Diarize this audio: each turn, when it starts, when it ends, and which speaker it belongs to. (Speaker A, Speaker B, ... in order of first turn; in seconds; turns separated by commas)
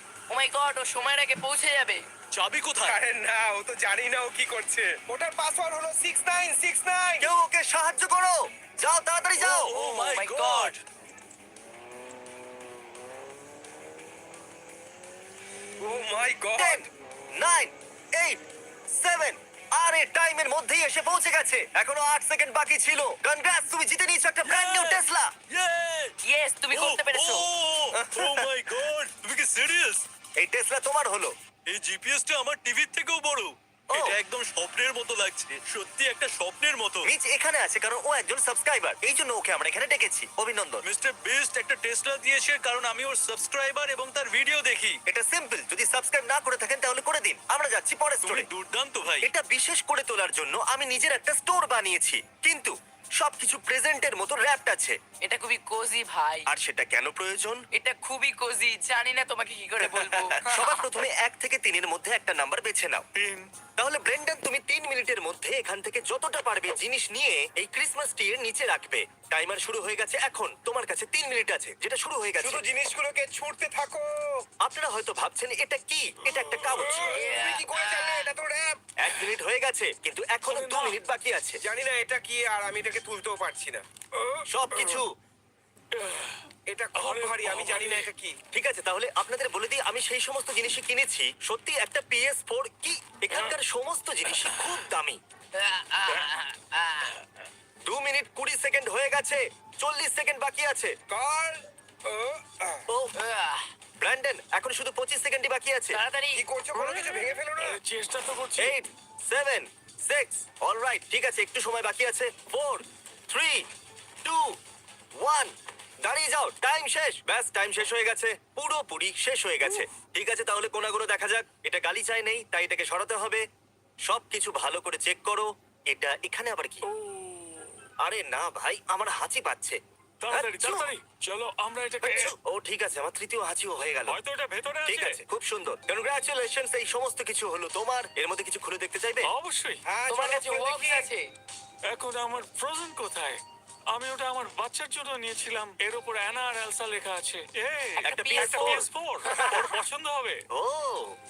Speaker A: 0.3-2.0, Speaker B: 2.3-3.0, Speaker C: 2.8-7.3, Speaker D: 7.2-9.8, Speaker B: 9.4-10.8, Speaker A: 10.0-10.8, Speaker C: 15.8-16.9, Speaker D: 16.6-18.4, Speaker D: 18.9-25.3, Speaker B: 24.4-26.1, Speaker A: 26.2-27.5, Speaker B: 26.7-30.0, Speaker D: 28.0-28.5, Speaker D: 30.4-31.3, Speaker B: 31.7-37.1, Speaker D: 33.9-34.2, Speaker D: 37.0-40.9, Speaker B: 40.8-45.0, Speaker D: 45.1-48.5, Speaker B: 48.2-49.3, Speaker D: 49.2-55.0, Speaker A: 55.2-56.5, Speaker D: 56.5-57.6, Speaker A: 57.8-61.0, Speaker D: 59.8-63.0, Speaker E: 63.2-63.5, Speaker D: 63.8-72.6, Speaker C: 72.4-74.5, Speaker D: 74.6-77.2, Speaker C: 76.7-78.8, Speaker A: 77.1-78.3, Speaker D: 79.0-81.6, Speaker C: 80.5-80.9, Speaker C: 81.6-85.0, Speaker D: 84.5-85.1, Speaker E: 85.9-86.4, Speaker C: 86.7-88.4, Speaker E: 87.0-88.1, Speaker D: 88.5-95.2, Speaker A: 95.6-97.2, Speaker D: 97.9-100.9, Speaker C: 101.1-102.8, Speaker A: 103.2-103.6, Speaker D: 104.0-106.0, Speaker A: 105.9-106.5, Speaker C: 106.3-107.8, Speaker E: 106.8-108.8, Speaker D: 108.6-113.7, Speaker D: 115.2-123.5, Speaker D: 124.1-126.8, Speaker E: 126.8-127.8, Speaker D: 128.0-129.8, Speaker E: 130.2-132.3, Speaker D: 130.3-130.9, Speaker D: 132.0-134.2, Speaker E: 134.1-135.2, Speaker D: 134.8-139.3, Speaker E: 139.2-139.8, Speaker C: 139.9-141.1, Speaker A: 140.1-141.2, Speaker E: 141.9-143.4, Speaker E: 143.9-150.4, Speaker A: 148.0-149.4, Speaker D: 148.0-148.9, Speaker C: 149.3-149.7, Speaker D: 150.5-151.2